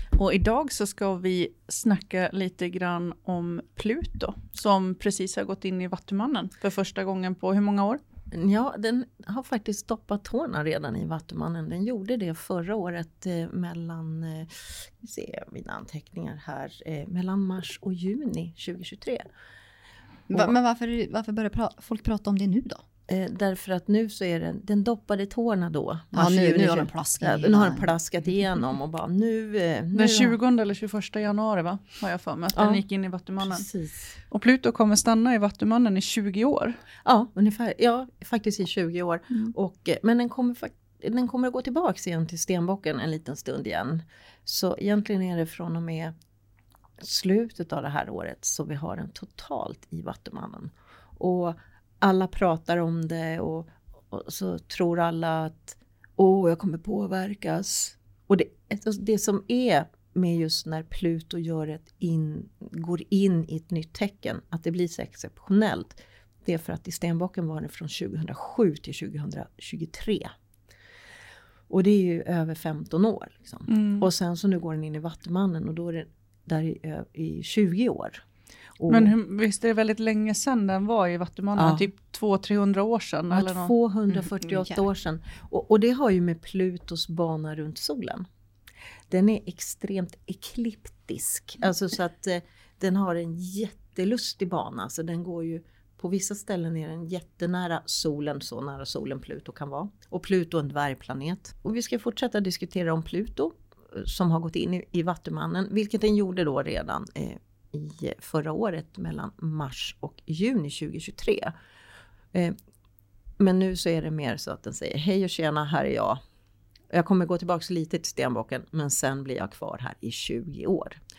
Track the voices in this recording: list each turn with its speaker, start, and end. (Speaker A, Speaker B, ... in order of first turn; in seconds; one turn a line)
Speaker A: 0.1-8.0
Speaker B: 8.3-19.2
Speaker C: 20.3-22.8
Speaker B: 23.1-30.4
Speaker C: 26.1-27.9
Speaker A: 29.9-33.7
Speaker B: 32.5-32.8
Speaker B: 33.4-34.1
Speaker A: 34.3-36.8
Speaker B: 37.0-46.1
Speaker B: 47.0-70.3
Speaker B: 71.7-78.2
Speaker A: 73.7-74.1
Speaker B: 78.8-79.1
Speaker A: 78.9-83.8
Speaker B: 81.6-81.9
Speaker B: 83.3-88.3
Speaker C: 84.5-84.8
Speaker B: 89.1-111.5
Speaker B: 113.4-116.2
Speaker B: 116.9-121.0